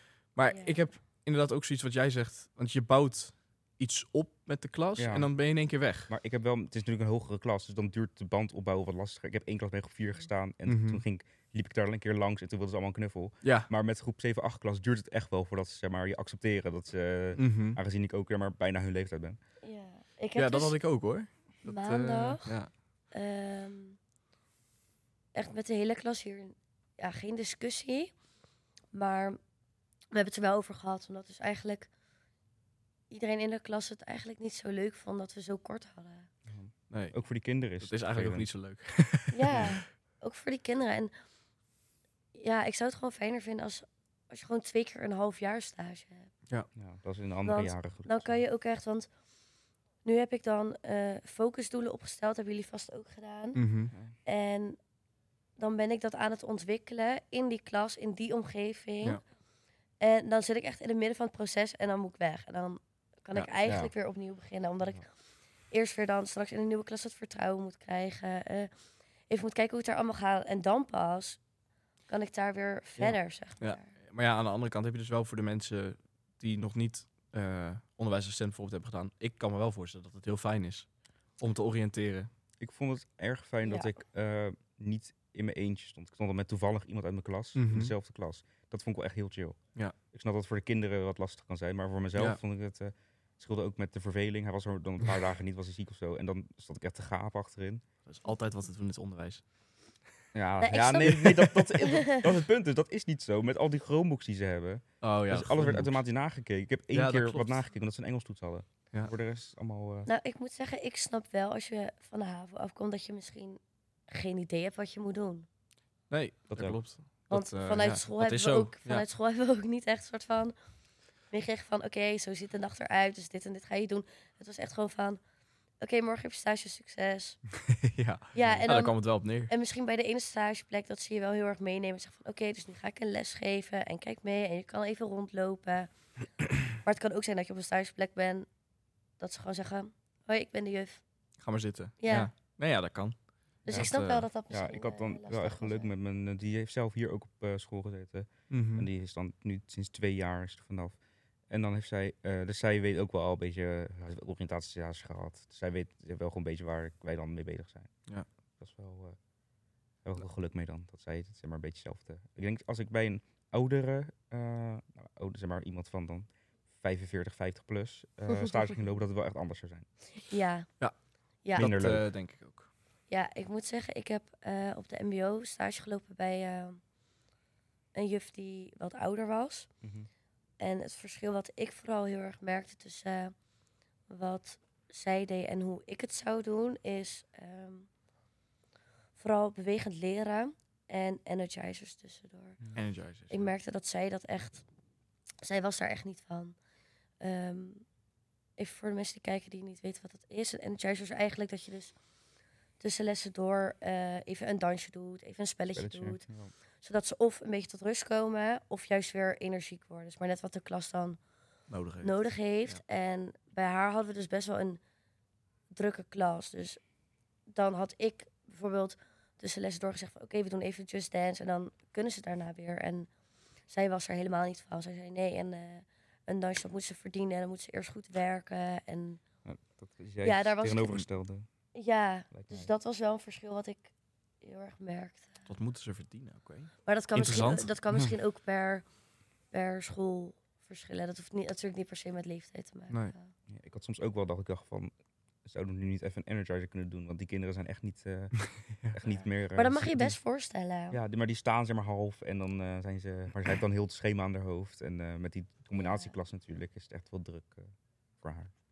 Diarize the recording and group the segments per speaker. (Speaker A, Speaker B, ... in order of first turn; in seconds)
Speaker A: 0.3-6.1, 10.7-11.0, 13.4-13.7, 17.4-17.8, 20.3-22.7, 36.9-37.1, 37.8-39.8, 53.5-53.9, 73.6-80.9, 81.4-82.3, 87.5-87.9, 98.1-99.4, 105.0-106.0, 106.9-107.6, 116.1-119.0, 127.7-129.5, 141.4-144.3, 148.5-148.9, 171.5-172.7, 192.7-193.5, 211.7-212.8, 235.5-237.7, 248.4-248.9
Speaker B: 0.5-0.8, 19.6-20.7, 21.6-22.6, 23.1-24.0, 25.3-28.1, 28.9-29.4, 30.1-31.9, 33.1-36.3, 39.3-41.1, 42.3-46.3, 47.5-49.1, 50.0-53.6, 54.2-54.8, 55.6-59.2, 60.0-65.0, 65.7-68.7, 69.3-71.4, 72.1-73.9, 83.6-83.9, 100.6-102.2, 110.0-115.5, 117.3-120.5, 121.3-125.2, 125.8-127.4, 128.3-135.9, 136.7-138.5, 139.2-141.0, 142.0-142.3, 143.6-145.9, 170.2-170.7, 173.1-176.8, 177.9-179.7, 180.6-183.3, 184.1-187.9, 189.2-192.6, 193.3-194.6, 195.4-196.6, 197.2-197.8, 198.6-201.9, 202.8-206.2, 206.8-211.2, 212.0-214.8, 215.7-216.8, 217.5-223.1, 223.7-229.2, 230.2-231.1, 231.7-235.4, 236.8-238.8, 239.5-243.3, 249.5-251.0, 255.8-256.1
Speaker C: 5.0-5.3, 6.1-19.4, 36.5-38.5, 46.8-48.4, 63.6-63.9, 82.6-89.6, 90.1-97.8, 100.3-110.1, 116.5-116.8, 128.3-128.6, 144.5-150.9, 151.5-157.9, 158.6-159.2, 160.0-166.3, 166.8-169.8, 171.6-172.1, 179.8-180.1, 205.7-206.5, 229.4-231.4, 232.3-232.7, 243.5-244.9, 245.4-250.2, 250.9-258.5